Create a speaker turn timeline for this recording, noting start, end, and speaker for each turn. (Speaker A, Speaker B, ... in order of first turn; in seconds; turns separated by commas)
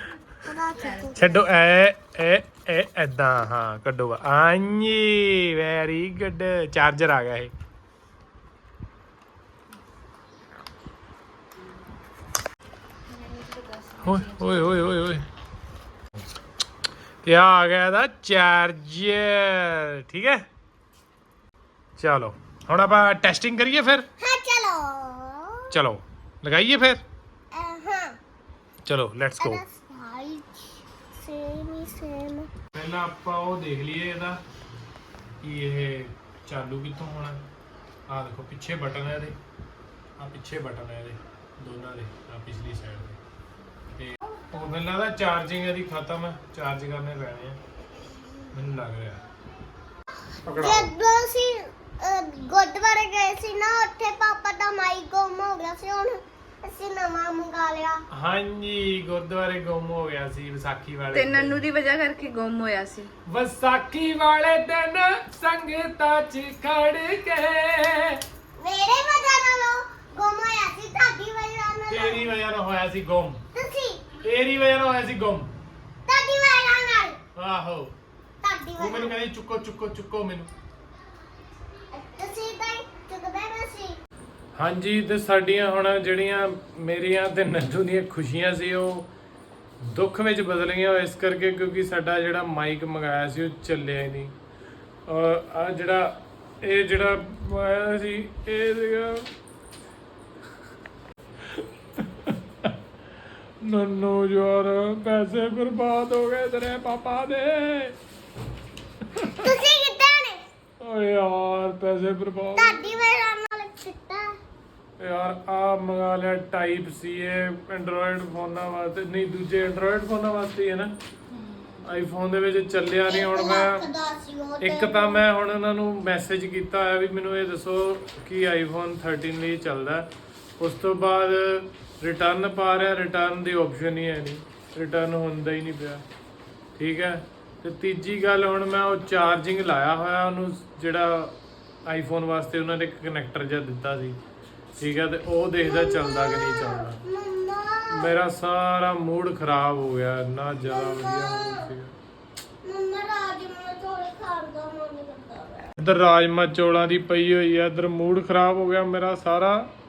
Speaker A: 0.5-1.4, Speaker B: 0.8-1.4, Speaker C: 1.2-7.5, Speaker B: 13.1-14.9, Speaker C: 14.0-15.2, Speaker C: 17.2-20.4, Speaker C: 22.0-24.1, Speaker A: 24.2-25.8, Speaker C: 25.7-27.0, Speaker A: 27.5-28.2, Speaker C: 28.9-29.6, Speaker A: 29.4-32.5, Speaker C: 32.7-34.4, Speaker C: 35.4-37.4, Speaker C: 38.1-39.4, Speaker C: 40.2-43.2, Speaker C: 44.0-47.6, Speaker C: 48.5-49.2, Speaker C: 50.5-50.9, Speaker A: 50.6-58.0, Speaker C: 58.1-61.6, Speaker B: 61.1-63.1, Speaker C: 63.3-68.2, Speaker A: 68.6-72.3, Speaker C: 71.9-73.4, Speaker A: 73.5-74.2, Speaker C: 74.2-75.5, Speaker A: 76.1-77.2, Speaker C: 77.4-77.9, Speaker A: 78.4-79.2, Speaker C: 78.8-80.5, Speaker A: 81.9-84.0, Speaker C: 84.5-89.1, Speaker C: 89.8-94.3, Speaker C: 95.1-99.3, Speaker C: 101.5-102.7, Speaker C: 103.6-108.0, Speaker A: 109.3-110.4, Speaker C: 110.8-113.0, Speaker A: 112.6-114.3, Speaker C: 115.0-120.9, Speaker B: 121.3-121.9, Speaker C: 121.9-123.9, Speaker A: 123.0-125.2, Speaker C: 124.6-130.1, Speaker C: 130.6-136.0, Speaker C: 136.8-144.2, Speaker C: 144.8-147.0, Speaker A: 145.6-148.2, Speaker C: 147.9-151.9, Speaker A: 150.6-151.7, Speaker A: 152.6-155.7, Speaker C: 155.8-159.7